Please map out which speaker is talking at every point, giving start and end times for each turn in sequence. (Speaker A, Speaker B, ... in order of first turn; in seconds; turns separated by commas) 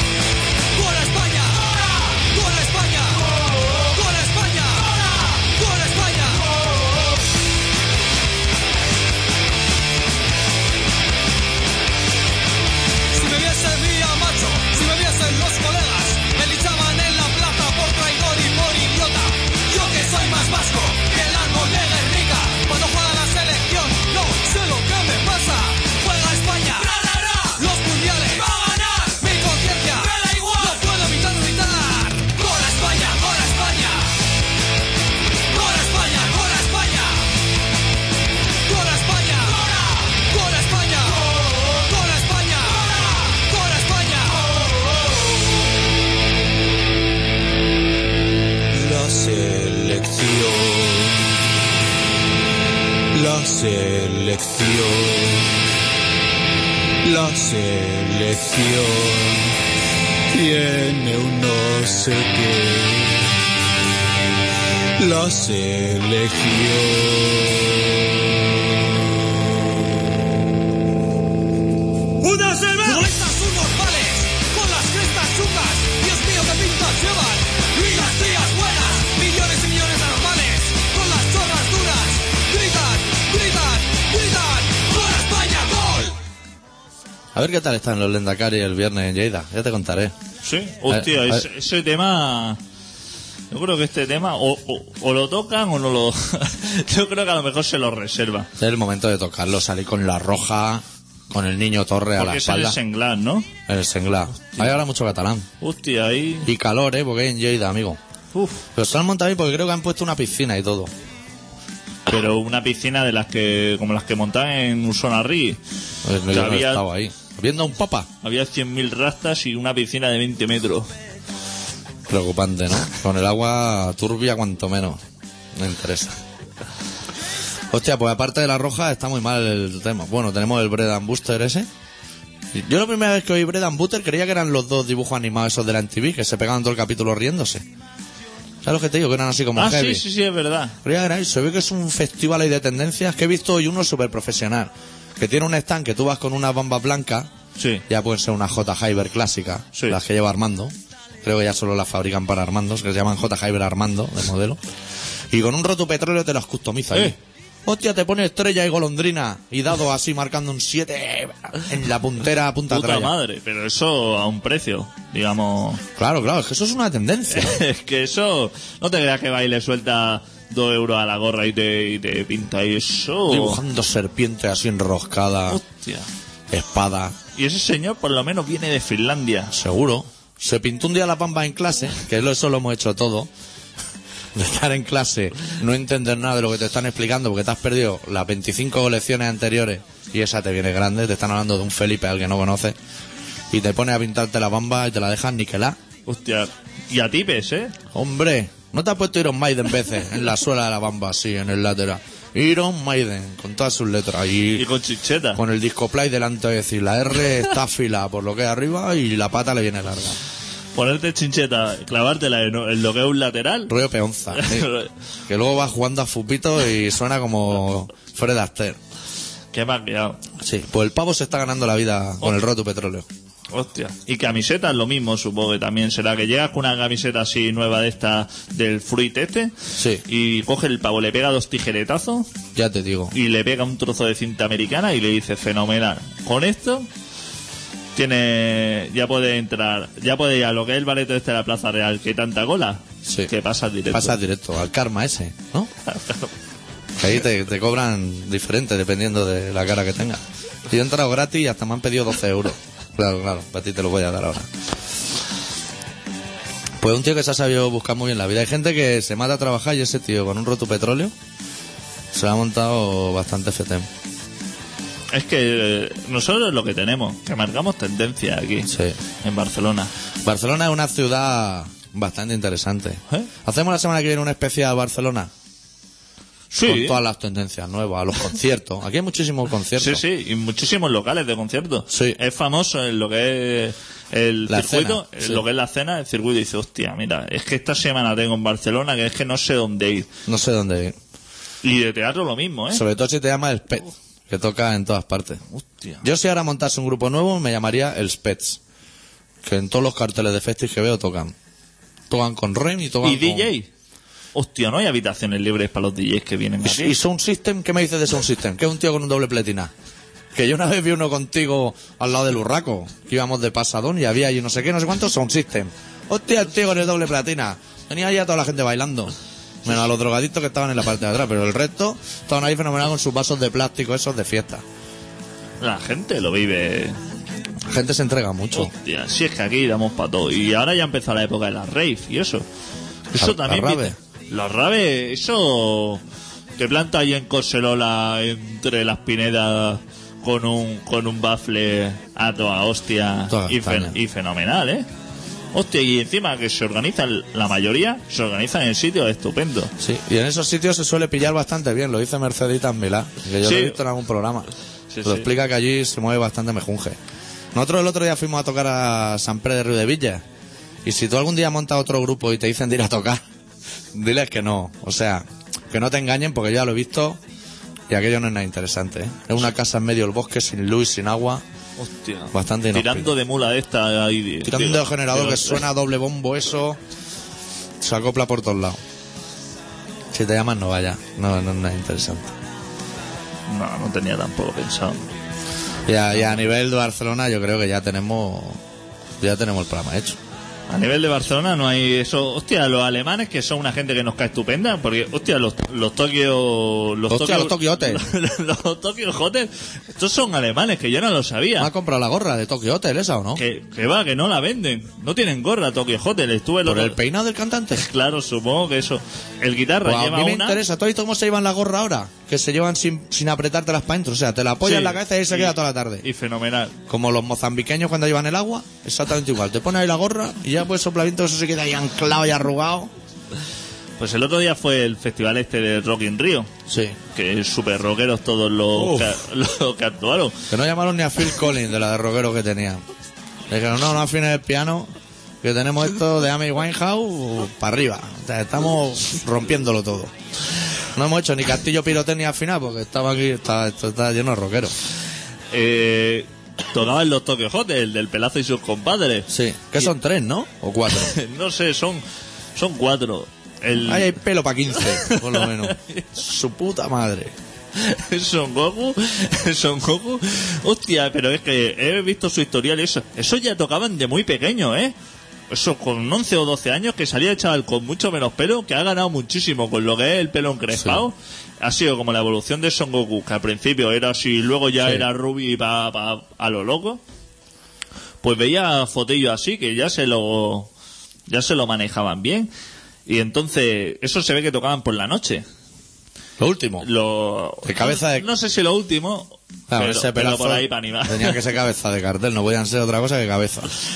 Speaker A: 0.7-6.7, Speaker A: 13.1-34.1, Speaker A: 35.5-37.3, Speaker A: 38.6-44.6, Speaker B: 48.7-51.4, Speaker B: 53.1-55.7, Speaker B: 57.0-59.6, Speaker B: 60.3-63.3, Speaker B: 65.0-67.9, Speaker A: 72.2-86.1, Speaker C: 87.3-90.1, Speaker D: 90.4-92.6, Speaker C: 90.9-91.5, Speaker D: 93.5-98.5, Speaker C: 98.6-102.8, Speaker D: 102.2-103.5, Speaker C: 103.7-105.5, Speaker D: 105.6-106.5, Speaker C: 106.4-108.0, Speaker D: 108.3-108.6, Speaker C: 108.7-110.9, Speaker D: 112.0-115.6, Speaker C: 116.0-118.1, Speaker D: 116.3-116.8, Speaker D: 118.2-120.9, Speaker C: 122.1-125.0, Speaker C: 125.5-126.2, Speaker C: 127.7-131.7, Speaker C: 132.5-137.6, Speaker C: 138.6-140.0, Speaker D: 139.5-140.8, Speaker C: 140.8-147.3, Speaker D: 147.6-147.8, Speaker C: 147.9-154.6, Speaker C: 155.3-163.1, Speaker D: 162.7-165.8, Speaker C: 165.9-167.6, Speaker D: 167.3-173.6, Speaker C: 173.3-175.6, Speaker D: 175.5-176.1, Speaker C: 176.5-177.2, Speaker D: 177.3-179.5, Speaker C: 179.5-183.3, Speaker C: 184.3-192.8, Speaker C: 193.5-195.8, Speaker D: 196.1-197.7, Speaker C: 197.9-204.7, Speaker D: 204.5-205.4, Speaker C: 205.3-210.2, Speaker D: 210.7-213.7, Speaker C: 213.7-214.7, Speaker D: 214.3-214.9, Speaker C: 215.3-218.8, Speaker D: 219.5-220.2, Speaker C: 220.4-223.1, Speaker D: 223.5-232.3, Speaker C: 229.8-230.0, Speaker C: 232.5-233.1, Speaker D: 233.1-236.9, Speaker D: 237.9-244.2, Speaker C: 243.0-243.3, Speaker C: 243.9-245.7, Speaker D: 245.9-246.3, Speaker C: 247.0-254.6, Speaker C: 256.8-261.1, Speaker C: 262.1-263.9, Speaker D: 265.1-268.7, Speaker C: 268.7-269.0, Speaker D: 269.2-269.9, Speaker C: 270.2-275.3, Speaker D: 276.5-277.0, Speaker C: 276.6-280.0, Speaker D: 279.8-290.1, Speaker C: 281.9-282.2, Speaker C: 284.5-285.4, Speaker C: 290.2-290.9, Speaker D: 291.6-292.8, Speaker C: 292.7-295.4, Speaker D: 295.5-296.0, Speaker C: 296.0-298.6, Speaker C: 299.4-301.3, Speaker C: 302.1-303.5, Speaker D: 303.0-303.7, Speaker D: 304.3-307.0, Speaker C: 306.6-309.7, Speaker C: 310.3-324.6, Speaker D: 325.6-327.0, Speaker C: 327.7-328.7, Speaker D: 328.5-332.4, Speaker D: 333.1-336.0, Speaker C: 333.2-333.9, Speaker D: 336.6-344.9, Speaker C: 343.3-344.0, Speaker D: 345.5-349.7, Speaker C: 349.8-354.5, Speaker D: 353.4-353.8, Speaker D: 354.9-355.3, Speaker C: 355.0-357.0, Speaker C: 357.5-360.2, Speaker C: 360.8-363.2, Speaker C: 363.9-367.2, Speaker C: 367.9-371.4, Speaker D: 371.8-375.6, Speaker C: 372.3-373.1, Speaker C: 374.4-376.8, Speaker C: 377.8-378.8, Speaker C: 380.1-382.3, Speaker D: 383.5-385.1, Speaker C: 385.9-388.6, Speaker D: 386.1-386.4, Speaker C: 389.2-390.2, Speaker D: 390.7-401.7, Speaker C: 397.1-398.0, Speaker C: 401.6-403.4, Speaker D: 403.4-407.0, Speaker C: 406.6-407.9, Speaker D: 407.8-410.6, Speaker C: 409.8-416.1, Speaker D: 414.6-416.7, Speaker C: 416.9-422.9, Speaker D: 424.0-426.5, Speaker C: 426.7-427.0, Speaker D: 427.1-430.4, Speaker C: 428.7-429.2, Speaker C: 430.5-432.8, Speaker C: 433.5-440.1, Speaker C: 440.9-444.7, Speaker D: 445.5-449.3, Speaker C: 449.3-451.1, Speaker D: 450.9-452.0, Speaker D: 452.6-454.1, Speaker C: 453.8-457.3, Speaker D: 454.8-456.1, Speaker D: 457.8-464.9, Speaker D: 465.5-477.0, Speaker D: 478.2-480.7, Speaker D: 481.3-482.5, Speaker D: 483.1-485.4, Speaker C: 486.4-486.9, Speaker D: 486.8-491.4, Speaker C: 487.6-488.3, Speaker C: 489.7-493.7